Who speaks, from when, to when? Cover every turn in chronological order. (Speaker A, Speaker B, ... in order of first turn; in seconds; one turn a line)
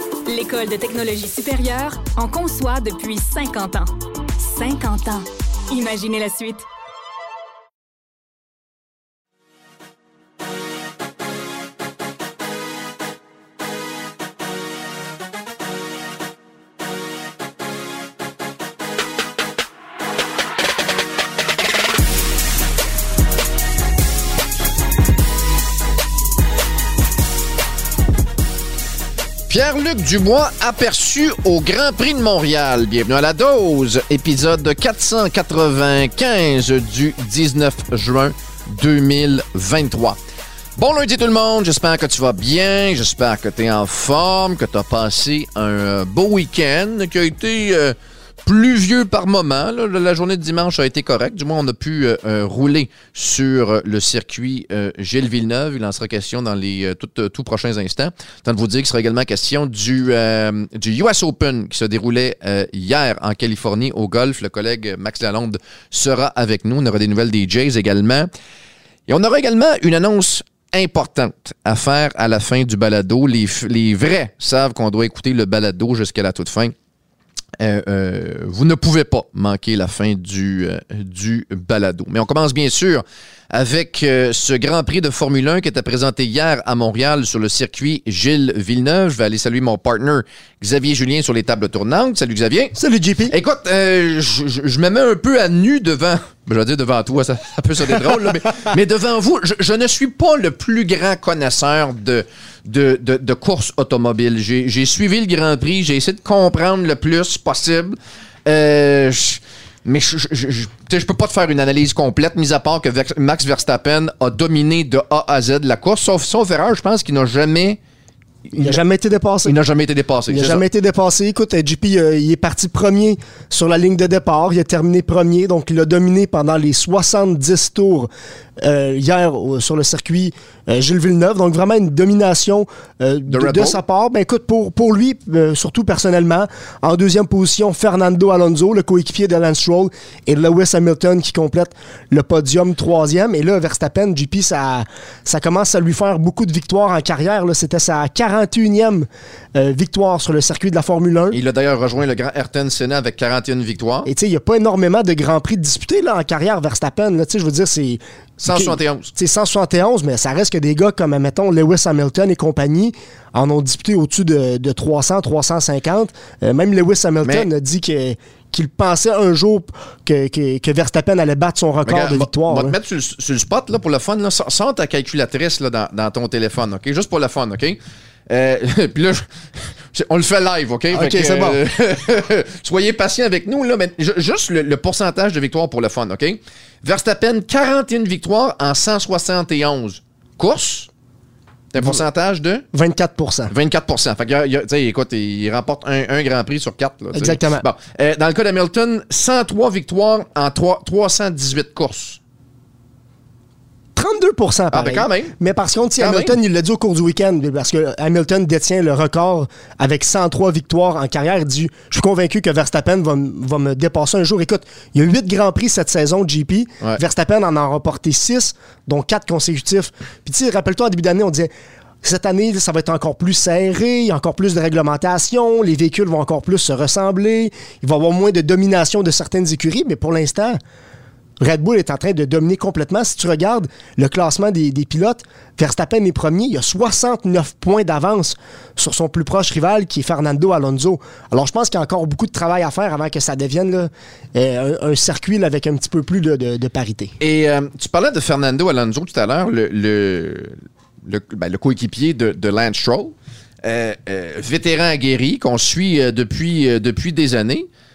Speaker A: 0.3-6.7
Speaker B: 29.5-40.2
Speaker B: 40.8-68.3
Speaker B: 69.1-76.7
Speaker B: 77.6-92.8
Speaker C: 92.8-93.3
Speaker B: 93.3-117.8
Speaker B: 118.5-118.8
Speaker C: 118.5-119.5
Speaker B: 119.4-120.6
Speaker C: 120.3-151.4
Speaker B: 133.3-133.8
Speaker B: 151.3-154.1
Speaker C: 154.1-172.7
Speaker B: 158.4-159.1
Speaker B: 171.8-177.8
Speaker B: 178.3-190.9
Speaker C: 180.9-181.6
Speaker B: 191.7-192.6
Speaker C: 192.7-193.5
Speaker B: 193.5-202.2
Speaker C: 197.1-197.6
Speaker C: 203.9-221.5
Speaker B: 204.7-205.3
Speaker B: 206.0-206.3
Speaker C: 222.0-230.6
Speaker C: 231.4-247.1
Speaker B: 247.2-257.7